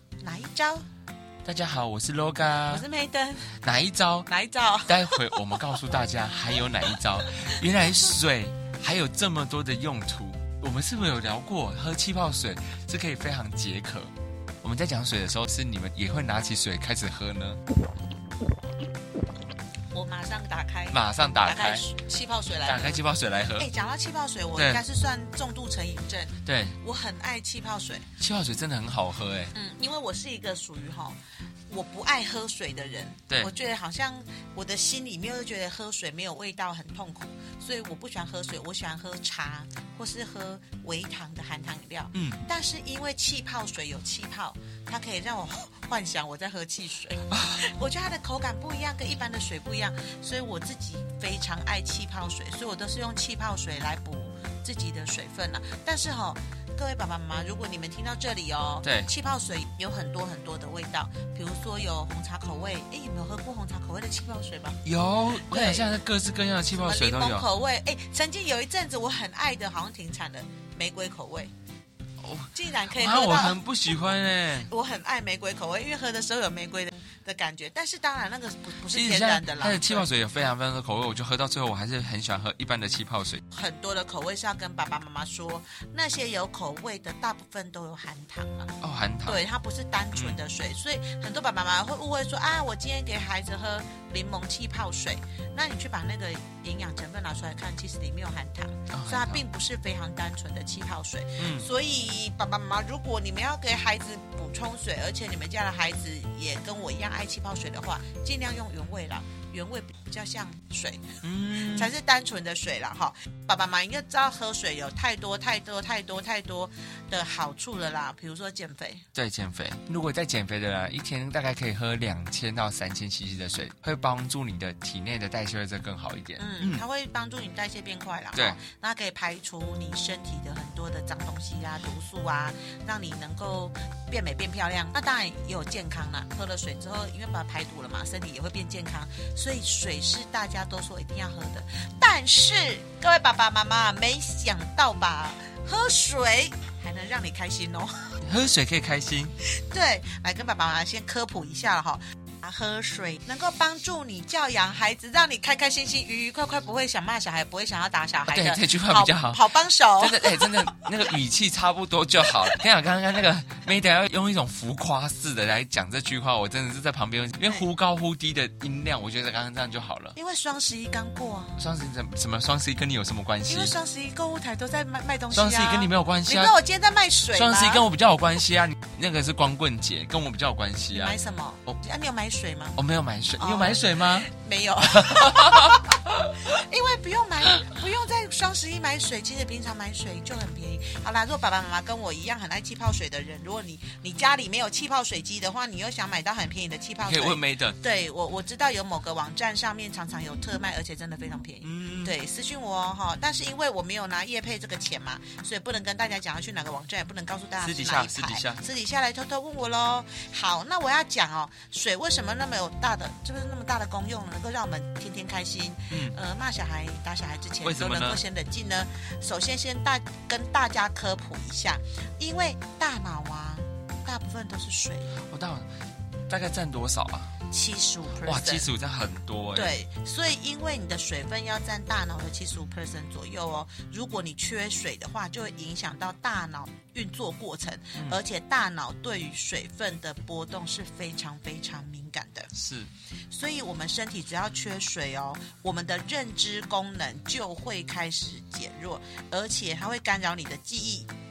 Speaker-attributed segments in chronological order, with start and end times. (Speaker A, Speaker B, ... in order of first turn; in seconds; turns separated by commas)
Speaker A: 0.2-0.9, Speaker B: 1.4-2.9, Speaker A: 2.7-3.5, Speaker B: 3.6-4.3, Speaker A: 4.3-5.6, Speaker B: 4.9-17.6, Speaker A: 19.9-23.0, Speaker B: 20.9-21.9, Speaker B: 22.6-23.7, Speaker A: 23.6-28.1, Speaker B: 24.6-24.8, Speaker B: 26.4-26.8, Speaker B: 28.2-29.5, Speaker A: 29.5-31.2, Speaker A: 31.7-64.8, Speaker B: 42.1-42.4, Speaker B: 47.3-47.6, Speaker B: 58.8-59.1, Speaker B: 64.8-67.5, Speaker A: 65.4-66.0, Speaker A: 66.7-71.5, Speaker B: 72.2-74.7, Speaker A: 72.5-73.6, Speaker A: 74.7-80.1, Speaker B: 78.9-83.4, Speaker A: 83.5-119.0, Speaker B: 88.8-89.4, Speaker B: 90.2-90.4, Speaker B: 98.9-99.4, Speaker B: 101.4-101.7, Speaker B: 111.2-111.9, Speaker B: 119.2-126.8, Speaker A: 126.4-148.2, Speaker B: 128.3-128.6, Speaker B: 148.2-149.3, Speaker A: 149.4-160.8, Speaker B: 158.3-159.5, Speaker B: 160.0-170.2, Speaker A: 170.1-171.6, Speaker B: 171.6-173.7, Speaker A: 173.5-177.9, Speaker B: 175.3-176.6, Speaker B: 177.3-181.2, Speaker A: 180.9-182.8, Speaker B: 182.8-184.3, Speaker A: 183.4-225.2, Speaker B: 184.8-185.8, Speaker B: 197.0-197.8, Speaker B: 201.6-202.1, Speaker B: 207.6-208.6, Speaker B: 215.9-216.2, Speaker B: 217.6-218.2, Speaker B: 225.2-225.7, Speaker B: 226.3-227.3, Speaker A: 227.5-228.7, Speaker B: 228.2-229.8, Speaker A: 229.6-242.5, Speaker B: 242.5-242.9, Speaker A: 243.3-251.1